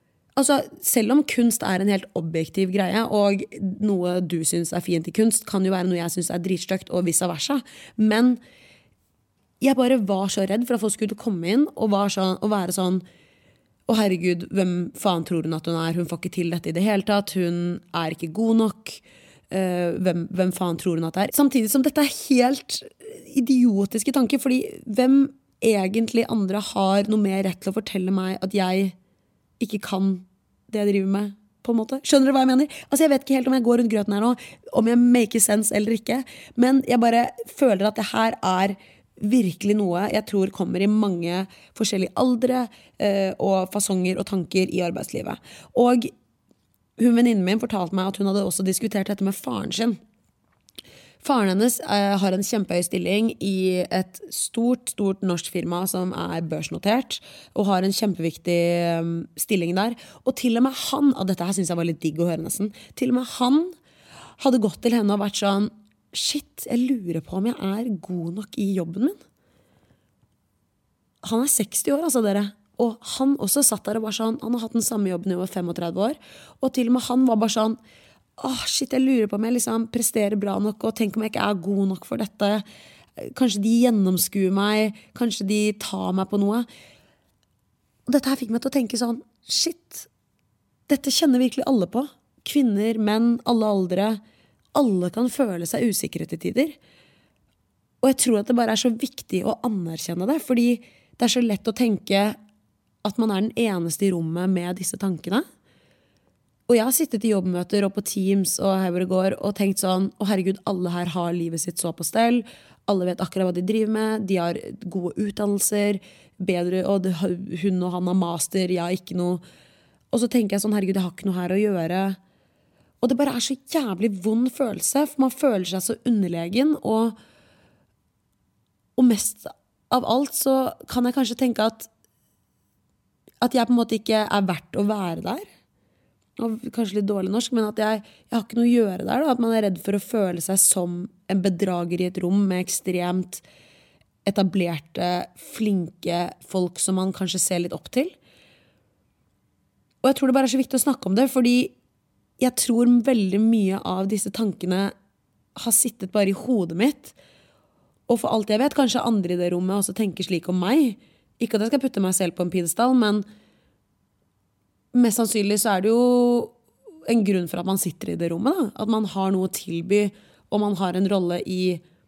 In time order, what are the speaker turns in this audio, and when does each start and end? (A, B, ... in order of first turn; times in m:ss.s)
0:00.4-0:08.4 A
0:09.6-0:13.0 A
0:13.9-0:29.0 A
0:29.6-0:46.1 A
0:47.0-0:50.0 A
0:51.2-1:03.8 A
1:04.4-1:09.2 A
1:11.2-1:17.8 A
1:18.4-1:22.6 A
1:23.2-1:26.7 A
1:28.1-1:30.1 A
1:30.9-1:34.2 A
1:34.8-1:36.8 A
1:38.0-1:42.4 A
1:43.0-1:45.4 A
1:46.7-1:59.4 A
2:00.1-2:02.2 A
2:03.0-2:07.2 A
2:09.0-2:11.9 A
2:13.4-2:15.5 A
2:16.4-2:23.4 A
2:24.2-2:28.1 A
2:30.0-2:31.7 A
2:32.4-2:34.9 A
2:35.6-2:37.1 A
2:38.1-2:43.2 A
2:44.9-2:46.6 A
2:47.1-2:51.8 A